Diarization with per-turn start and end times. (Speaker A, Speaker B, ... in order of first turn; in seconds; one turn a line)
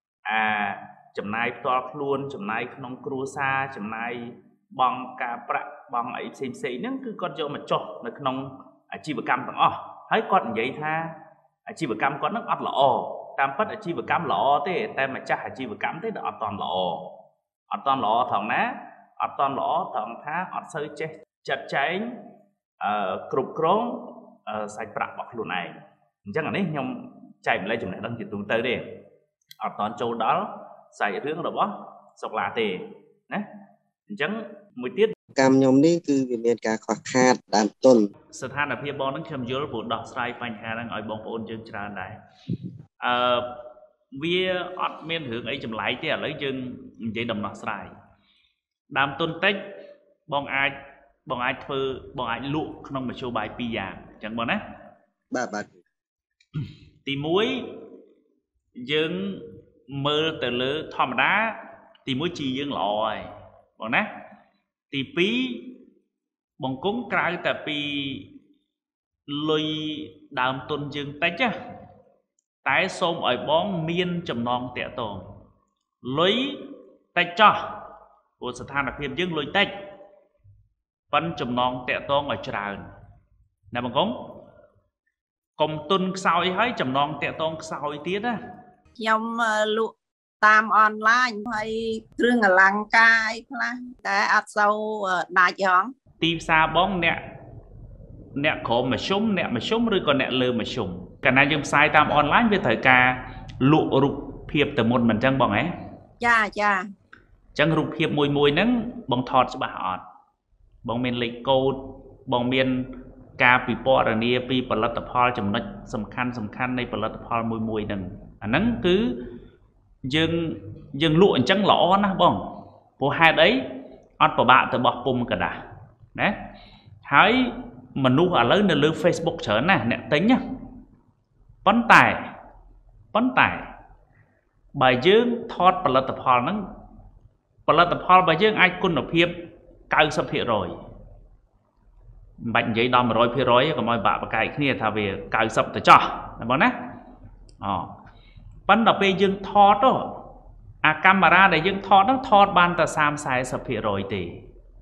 Speaker A: 0.2-11.1
Speaker A: 11.7-17.1
Speaker A: 17.7-22.1
Speaker A: 22.8-28.9
Speaker A: 29.6-33.4
Speaker A: 34.1-35.1
Speaker B: 35.3-38.1
Speaker A: 38.3-42.1
Speaker A: 43.0-43.5
Speaker A: 44.1-47.9
Speaker A: 48.9-49.6
Speaker A: 50.3-50.7
Speaker A: 51.2-54.6
Speaker B: 55.3-55.8
Speaker A: 57.0-57.6
Speaker A: 58.8-63.2
Speaker A: 63.8-64.1
Speaker A: 64.9-65.8
Speaker A: 66.6-68.3
Speaker A: 69.3-71.5
Speaker A: 72.6-75.2
Speaker A: 76.0-76.6
Speaker A: 77.1-77.6
Speaker A: 78.4-79.7
Speaker A: 81.1-82.8
Speaker A: 83.7-84.4
Speaker A: 85.6-88.4
Speaker C: 89.0-95.9
Speaker A: 96.2-97.2
Speaker A: 98.3-105.7
Speaker C: 106.2-106.8
Speaker A: 107.5-110.0
Speaker A: 110.8-112.8
Speaker A: 113.4-119.2
Speaker A: 120.1-122.4
Speaker A: 123.0-123.6
Speaker A: 124.2-125.6
Speaker A: 127.0-130.4
Speaker A: 131.6-132.2
Speaker A: 133.1-133.7
Speaker A: 134.7-136.6
Speaker A: 137.7-139.3
Speaker A: 139.9-140.7
Speaker A: 142.4-146.7
Speaker A: 147.6-147.9
Speaker A: 148.7-150.2
Speaker A: 150.8-154.4